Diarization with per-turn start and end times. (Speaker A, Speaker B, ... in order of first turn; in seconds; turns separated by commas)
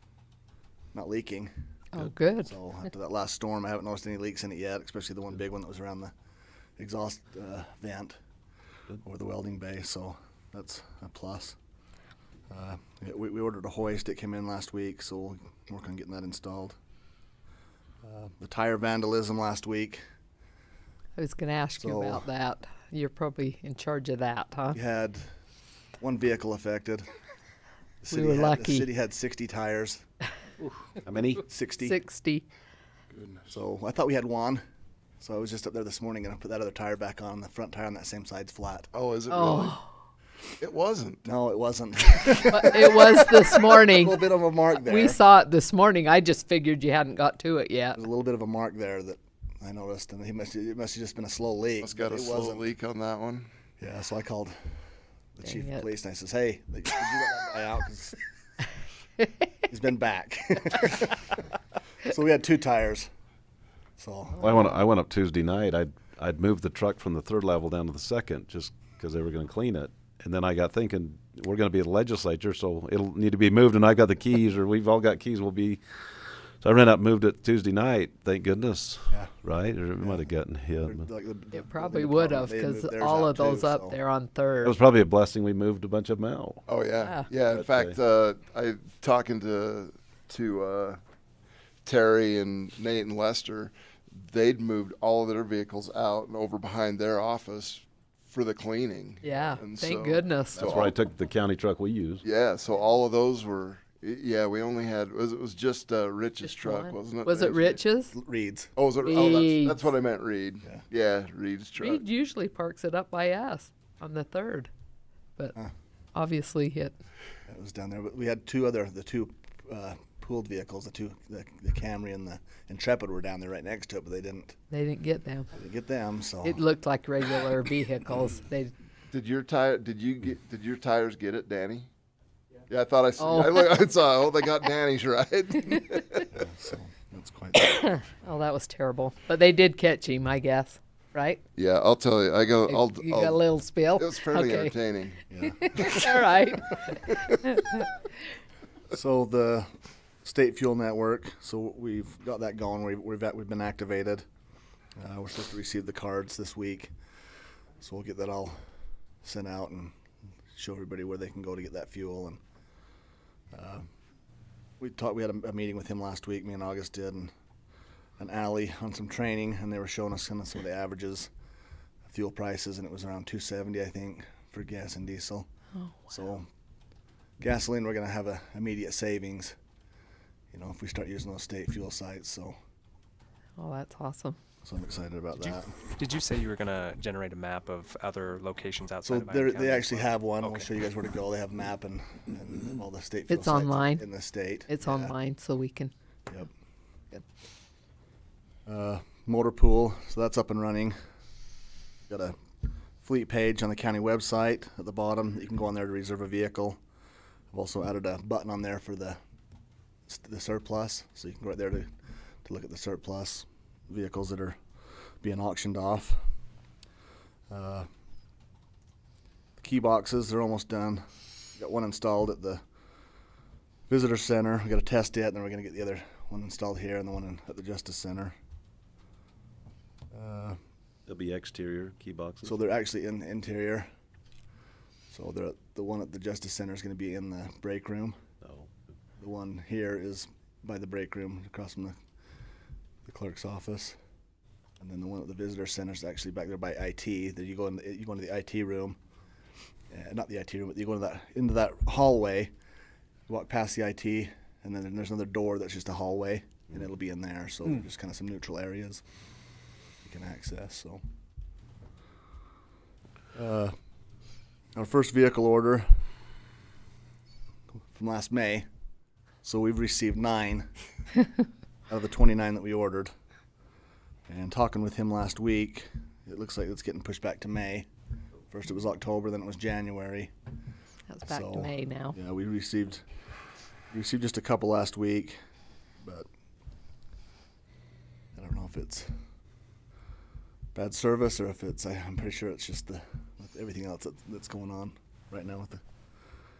Speaker A: 0.9-1.5, Speaker B: 1.9-2.5, Speaker A: 2.4-6.1, Speaker A: 6.8-8.2, Speaker A: 9.0-11.6, Speaker A: 12.5-16.8, Speaker A: 18.0-20.0, Speaker B: 21.1-24.8, Speaker A: 21.8-22.3, Speaker A: 24.7-25.3, Speaker A: 26.0-27.0, Speaker A: 28.0-30.0, Speaker B: 28.1-28.9, Speaker C: 31.0-31.4, Speaker A: 31.4-31.9, Speaker B: 31.8-32.4, Speaker A: 33.5-34.6, Speaker A: 35.2-38.9, Speaker D: 38.9-39.8, Speaker B: 39.3-39.9, Speaker D: 40.6-41.2, Speaker A: 41.2-45.2, Speaker B: 42.5-48.0, Speaker A: 48.0-52.7, Speaker D: 51.8-53.5, Speaker A: 53.8-54.6, Speaker A: 55.4-58.2, Speaker B: 55.5-55.9, Speaker A: 59.7-61.4, Speaker A: 62.0-63.1, Speaker A: 64.0-64.5, Speaker C: 64.4-75.8, Speaker C: 76.6-81.1, Speaker A: 80.0-80.3, Speaker A: 80.8-84.0, Speaker B: 81.5-84.8, Speaker C: 84.6-86.6, Speaker D: 86.7-91.0, Speaker B: 87.0-87.2, Speaker C: 87.5-88.0, Speaker D: 91.8-101.0, Speaker B: 99.2-100.7, Speaker C: 100.6-102.2, Speaker D: 102.2-107.8, Speaker B: 106.4-108.1, Speaker A: 108.1-108.7, Speaker D: 108.8-112.0, Speaker B: 109.0-109.9, Speaker B: 111.8-114.7, Speaker B: 116.1-117.0, Speaker A: 117.5-124.5, Speaker B: 124.7-125.5, Speaker A: 125.5-126.6, Speaker B: 126.4-128.7, Speaker D: 129.1-131.9, Speaker D: 132.7-136.3, Speaker B: 133.2-133.8, Speaker A: 136.3-137.8, Speaker B: 137.6-141.4, Speaker D: 141.6-143.4, Speaker B: 142.7-144.7, Speaker D: 143.9-145.2, Speaker A: 145.3-146.0, Speaker B: 145.4-147.9, Speaker D: 145.8-146.0, Speaker A: 148.9-149.7, Speaker A: 150.2-154.2, Speaker A: 155.0-156.9, Speaker A: 157.8-158.6, Speaker A: 159.2-159.9, Speaker A: 160.5-162.4, Speaker A: 163.5-163.9, Speaker A: 164.8-167.3, Speaker A: 168.2-171.3, Speaker A: 172.1-175.5, Speaker B: 175.8-176.1, Speaker A: 176.1-176.5, Speaker A: 177.4-179.6, Speaker A: 180.5-182.6, Speaker B: 183.6-184.4, Speaker A: 184.6-185.8, Speaker E: 185.4-190.7, Speaker A: 189.0-195.2, Speaker B: 193.3-194.1, Speaker B: 194.7-195.9, Speaker A: 198.7-200.9, Speaker A: 202.1-202.3, Speaker A: 203.0-206.8, Speaker A: 207.5-209.2, Speaker A: 210.1-211.9, Speaker A: 212.4-214.6, Speaker A: 215.2-216.2, Speaker A: 217.5-217.9, Speaker A: 219.6-221.0, Speaker A: 221.6-222.6, Speaker A: 223.9-228.3, Speaker A: 230.1-230.6, Speaker C: 231.1-232.7, Speaker A: 232.4-233.9, Speaker A: 235.1-238.2, Speaker C: 238.4-238.7, Speaker A: 239.2-242.0, Speaker A: 243.0-244.0, Speaker A: 244.8-249.0, Speaker A: 249.9-252.5, Speaker A: 253.3-259.0, Speaker A: 260.0-261.0, Speaker A: 263.3-263.7, Speaker A: 264.8-265.9, Speaker A: 267.9-268.6, Speaker A: 269.4-270.7, Speaker A: 271.9-273.1, Speaker A: 274.3-277.9, Speaker A: 278.5-280.3, Speaker B: 281.1-282.2, Speaker A: 281.2-283.0, Speaker A: 283.9-285.4, Speaker A: 286.0-286.3, Speaker A: 288.3-289.1, Speaker A: 290.7-295.8